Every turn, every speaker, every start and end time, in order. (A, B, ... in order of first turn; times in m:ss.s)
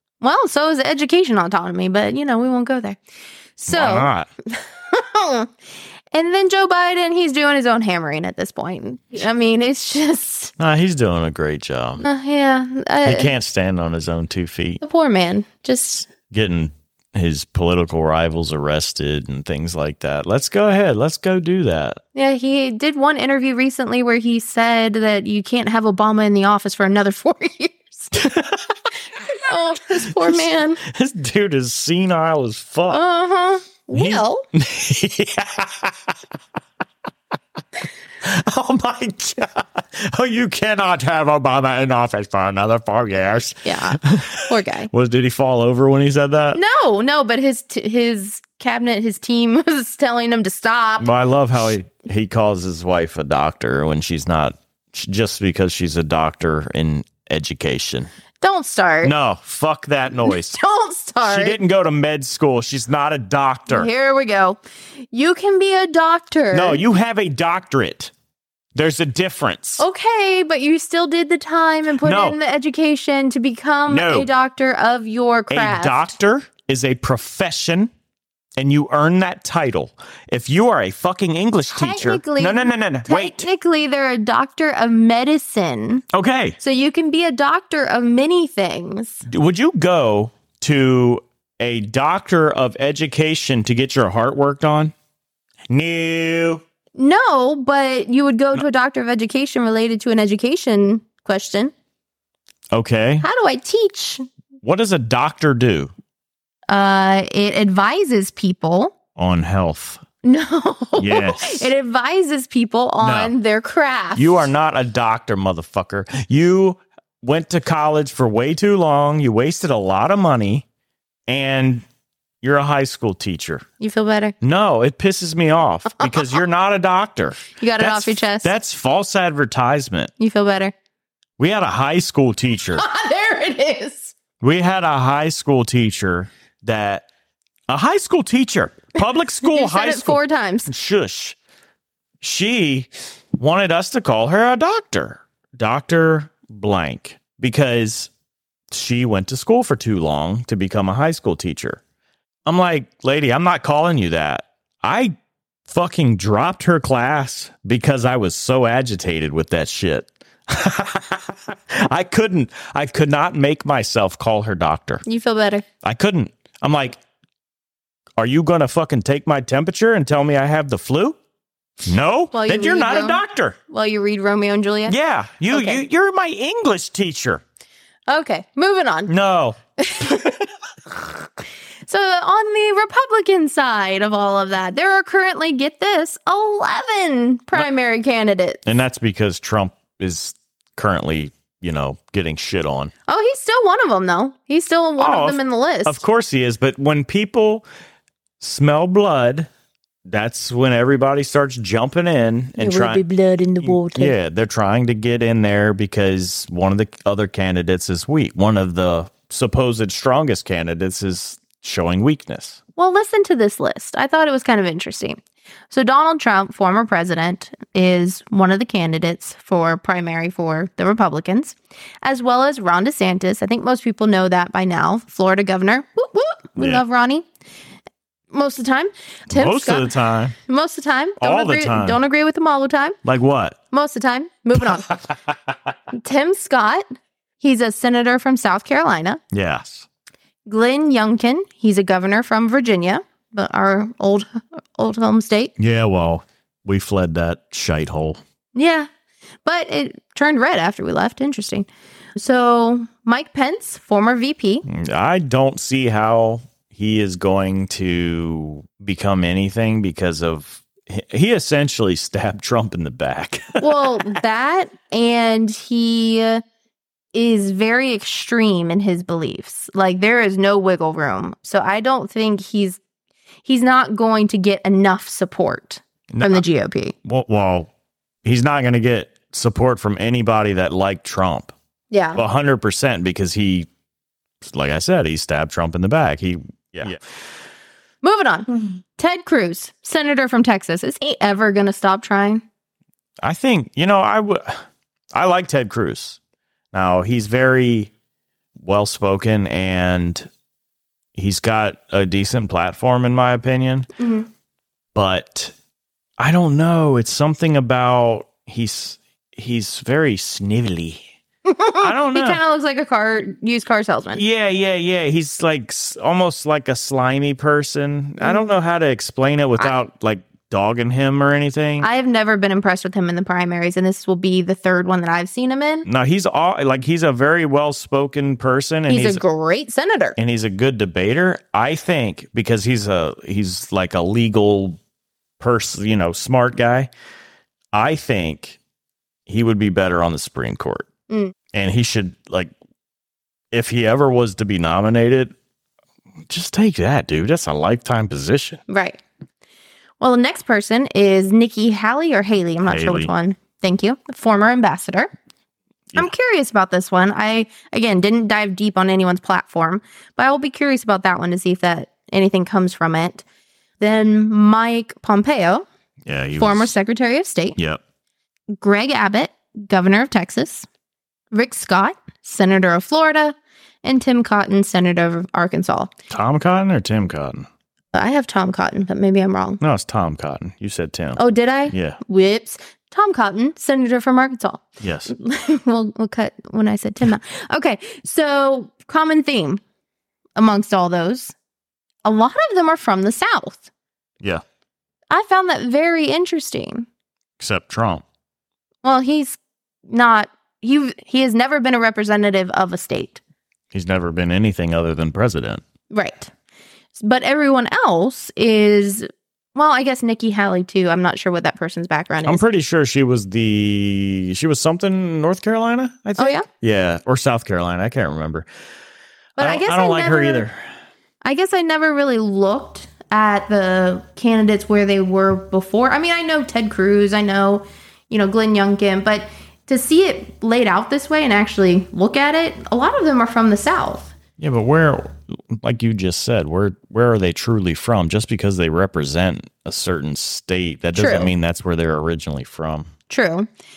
0:00.2-0:03.0 A
0:03.6-0:05.5 A
0:03.7-0:04.3 B
0:06.1-0:10.5 A
0:10.6-0:12.0 B
0:12.0-0:13.3 A
0:13.0-0:14.8 B
0:14.8-0:16.1 A
0:16.3-0:22.0 B
0:22.1-0:28.1 A
0:28.1-0:28.9 B
0:29.2-0:30.8 A
0:30.1-0:33.0 B
0:32.9-0:34.4 A
0:33.9-0:36.1 B
0:38.2-0:46.6 B
0:43.6-0:44.9 A
0:46.5-0:51.1 A
0:51.0-0:58.1 B
0:58.4-0:59.1 A
0:59.0-1:00.6 B
1:00.2-1:01.6 A
1:01.2-1:03.9 B
1:03.7-1:04.6 A
1:05.1-1:06.8 A
1:06.5-1:08.1 B
1:08.7-1:09.8 B
1:09.8-1:16.1 A
1:12.0-1:12.4 B
1:13.9-1:14.3 B
1:15.5-1:17.9 B
1:18.6-1:23.5 B
1:21.7-1:26.0 A
1:26.1-1:26.6 B
1:26.6-1:29.2 A
1:29.2-1:34.9 B
1:35.7-1:36.6 B
1:36.9-1:41.7 A
1:42.7-1:43.2 B
1:43.2-1:44.2 A
1:44.6-1:45.9 B
1:46.7-1:48.9 A
1:49.2-1:50.0 B
1:50.2-1:54.5 A
1:51.0-1:51.7 B
1:53.0-1:53.3 B
1:54.1-2:00.6 B
2:01.3-2:01.8 B
2:02.4-2:03.6 B
2:03.8-2:04.3 A
2:04.4-2:10.1 B
2:06.0-2:06.4 A
2:07.6-2:08.5 A
2:10.2-2:10.7 A
2:11.4-2:12.8 B
2:12.7-2:14.1 A
2:14.4-2:17.0 B
2:17.7-2:21.4 B
2:19.4-2:20.7 A
2:22.2-2:28.1 B
2:28.7-2:31.8 B
2:32.4-2:35.1 B
2:35.7-2:45.0 B
2:45.0-2:45.6 A
2:45.8-2:47.0 B
2:48.2-2:51.2 B
2:51.8-2:53.6 B
2:52.3-2:54.9 A
2:54.9-2:57.4 B
2:55.5-2:55.8 A
2:58.1-2:59.1 A
2:59.1-2:59.6 B
2:59.8-3:00.3 A
3:01.8-3:08.6 A
3:08.6-3:12.9 B
3:13.1-3:16.0 A
3:15.0-3:17.6 B
3:18.4-3:19.5 B
3:20.0-3:23.0 B
3:22.6-3:24.1 A
3:23.6-3:32.6 B
3:32.8-3:35.2 A
3:35.7-3:47.2 A
3:46.6-3:46.8 B
3:48.3-3:53.0 A
3:49.3-3:50.4 B
3:51.2-3:52.0 B
3:53.0-3:53.6 B
3:53.7-3:54.9 A
3:54.9-3:55.2 B
3:55.9-3:56.8 A
3:57.4-3:59.2 A
3:59.3-3:59.8 B
4:00.5-4:05.5 A
4:05.6-4:08.2 B
4:08.5-4:08.9 A
4:09.4-4:14.6 A
4:14.6-4:24.2 B
4:23.6-4:26.4 A
4:27.1-4:32.8 A
4:33.4-4:36.9 A
4:36.1-4:36.4 B
4:37.0-4:37.7 B
4:38.2-4:41.5 B
4:41.9-4:42.2 A
4:42.1-4:43.7 B
4:44.4-4:47.0 B
4:48.0-4:52.4 A
4:53.2-4:56.2 B
4:56.7-4:57.9 B
4:58.6-5:00.3 B
5:01.1-5:03.9 B
5:04.0-5:04.3 A
5:04.9-5:05.5 B
5:06.2-5:11.0 B
5:11.4-5:14.2 A
5:11.8-5:12.4 B
5:14.2-5:21.9 B
5:21.8-5:25.8 A
5:25.8-5:29.2 B
5:28.9-5:30.2 A
5:30.2-5:34.8 B
5:35.4-5:36.9 B
5:37.7-5:38.6 B
5:39.3-5:40.9 B
5:41.5-5:42.5 B
5:43.5-5:45.3 B
5:46.3-5:48.6 B
5:48.7-5:49.0 A
5:50.0-5:55.1 A
5:52.6-5:53.1 B
5:56.0-6:03.2 A
6:03.8-6:05.6 A
6:06.0-6:06.7 B
6:06.4-6:07.6 A
6:08.6-6:10.7 A
6:11.3-6:15.9 A
6:16.1-6:17.5 B
6:17.9-6:19.6 A
6:19.6-6:22.0 B
6:21.2-6:29.6 A
6:24.8-6:25.1 B
6:30.4-6:31.3 A
6:32.0-6:33.7 A
6:35.1-6:36.9 A
6:37.4-6:38.0 B
6:38.8-6:43.2 A
6:43.7-6:45.6 B
6:45.9-6:46.3 A
6:46.9-6:52.4 A
6:52.2-6:58.4 B
6:56.2-6:56.5 A
6:59.4-7:00.4 A
6:59.4-7:00.6 B
7:01.2-7:14.1 A
7:14.4-7:22.9 B
7:21.0-7:21.3 A
7:23.1-7:23.5 A